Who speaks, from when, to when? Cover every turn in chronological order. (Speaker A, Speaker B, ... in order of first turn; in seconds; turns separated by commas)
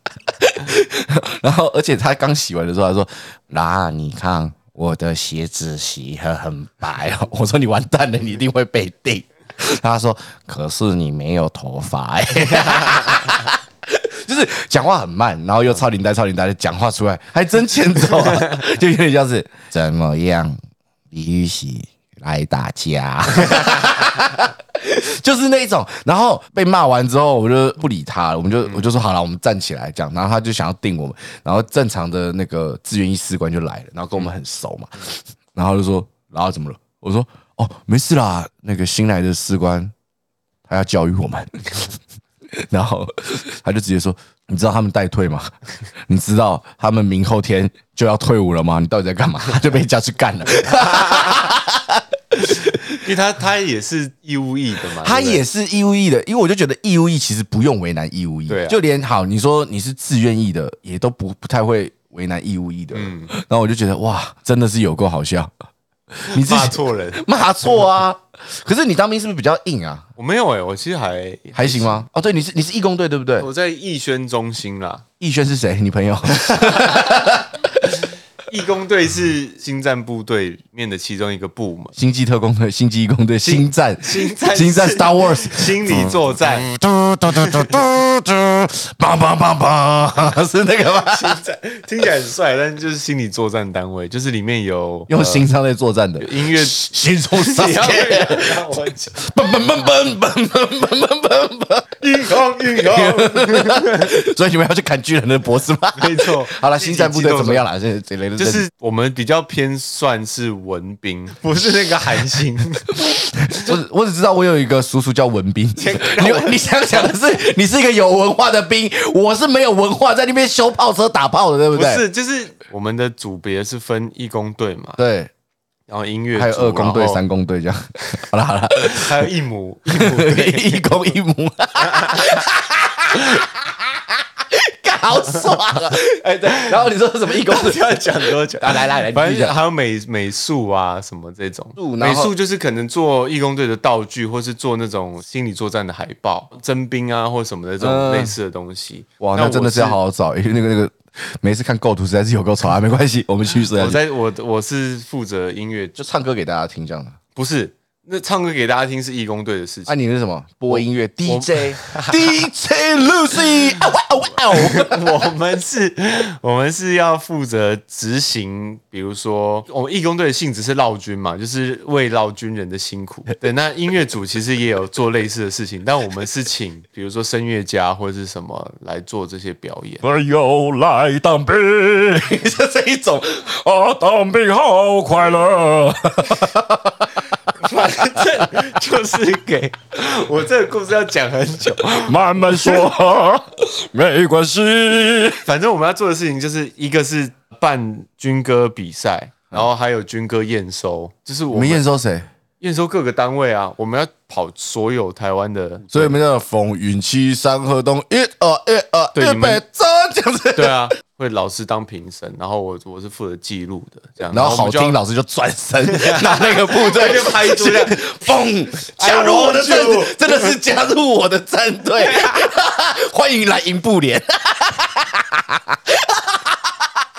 Speaker A: 0.4-20.6, Speaker A: 21.1-39.9, Speaker A: 40.7-41.9, Speaker A: 42.5-53.0, Speaker B: 53.0-55.4, Speaker A: 55.0-65.5, Speaker B: 58.5-58.8, Speaker B: 62.9-63.3, Speaker A: 66.1-70.1, Speaker B: 66.3-67.2, Speaker B: 70.2-72.0, Speaker A: 71.5-73.5, Speaker B: 73.4-75.0, Speaker A: 75.2-77.8, Speaker B: 78.5-81.9, Speaker A: 82.0-91.4, Speaker B: 83.4-86.7, Speaker B: 91.0-95.5, Speaker A: 95.1-108.7, Speaker B: 96.2-99.2, Speaker B: 102.0-104.1, Speaker B: 106.0-107.6, Speaker B: 108.4-113.0, Speaker A: 113.5-122.0, Speaker B: 115.8-117.1, Speaker B: 121.7-125.0, Speaker A: 125.0-125.3, Speaker B: 125.9-127.2, Speaker A: 126.4-129.3, Speaker B: 128.8-130.9, Speaker A: 130.0-139.6, Speaker B: 131.8-132.4, Speaker B: 137.4-150.0, Speaker A: 141.8-142.3, Speaker A: 147.8-148.3, Speaker A: 149.2-154.0, Speaker B: 153.7-156.0, Speaker A: 156.0-157.2, Speaker B: 157.3-159.9, Speaker A: 159.9-165.3, Speaker B: 160.7-162.4, Speaker B: 164.5-180.0, Speaker A: 180.0-187.2, Speaker B: 187.6-192.8, Speaker A: 192.1-195.4, Speaker B: 195.4-201.8, Speaker A: 201.5-202.3, Speaker B: 202.6-206.2, Speaker A: 205.9-210.9, Speaker B: 209.1-209.6, Speaker B: 210.5-215.0, Speaker A: 214.3-226.9, Speaker B: 215.9-218.0, Speaker B: 219.0-220.6